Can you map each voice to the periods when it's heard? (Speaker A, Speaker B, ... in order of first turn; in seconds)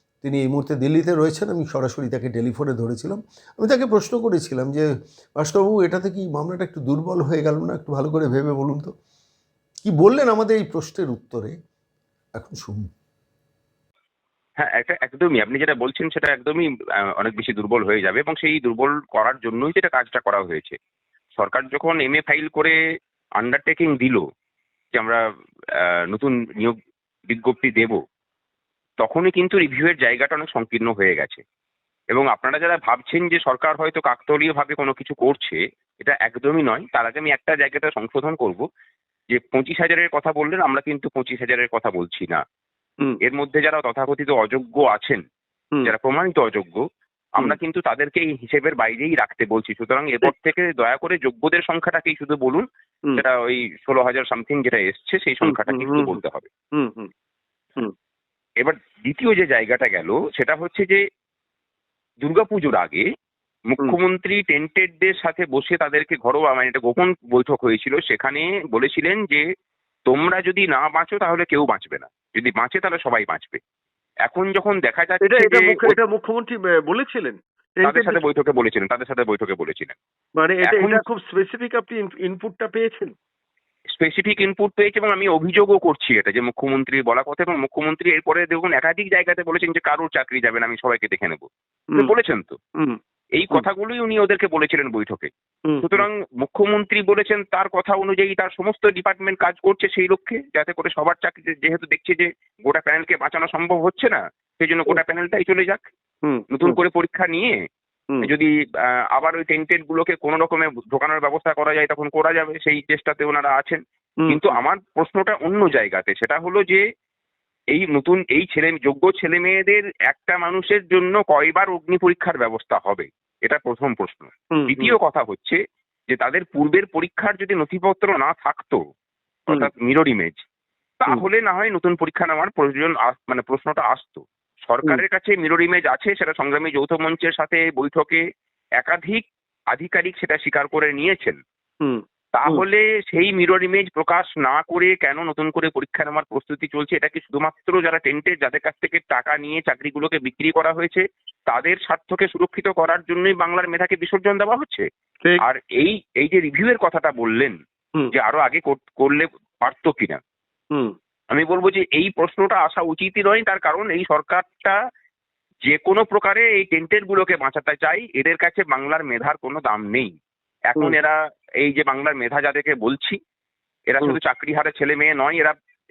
Speaker A: 0.2-8.9, 9.8-11.6, 12.4-12.9
Speaker B: 14.6-16.6, 17.2-20.8, 21.4-22.8, 23.4-24.2, 26.1-26.8, 27.3-28.0, 29.0-31.4, 32.1-38.6, 39.3-42.4, 43.2-45.2, 45.8-46.8, 47.4-52.6, 53.2-56.5, 58.6-61.0, 62.2-63.0, 63.7-69.4, 70.1-73.6, 74.3-76.0, 77.8-80.0, 80.6-81.0, 84.0-91.5, 92.0-92.6, 93.3-95.3, 95.8-105.8, 106.5-107.6, 109.1-116.8, 117.7-125.6, 126.1-128.8, 129.5-130.4, 131.0-138.2, 138.8-141.4, 142.3-154.8, 155.4-157.5, 158.1-160.2, 161.3-164.8, 165.7-170.1, 170.7-173.2, 173.9-175.6
Speaker C: 55.5-56.2, 56.8-57.1, 75.2-78.2, 80.4-83.1, 95.7-96.0, 106.2-106.8, 114.2-114.6, 124.5-125.0, 141.8-142.6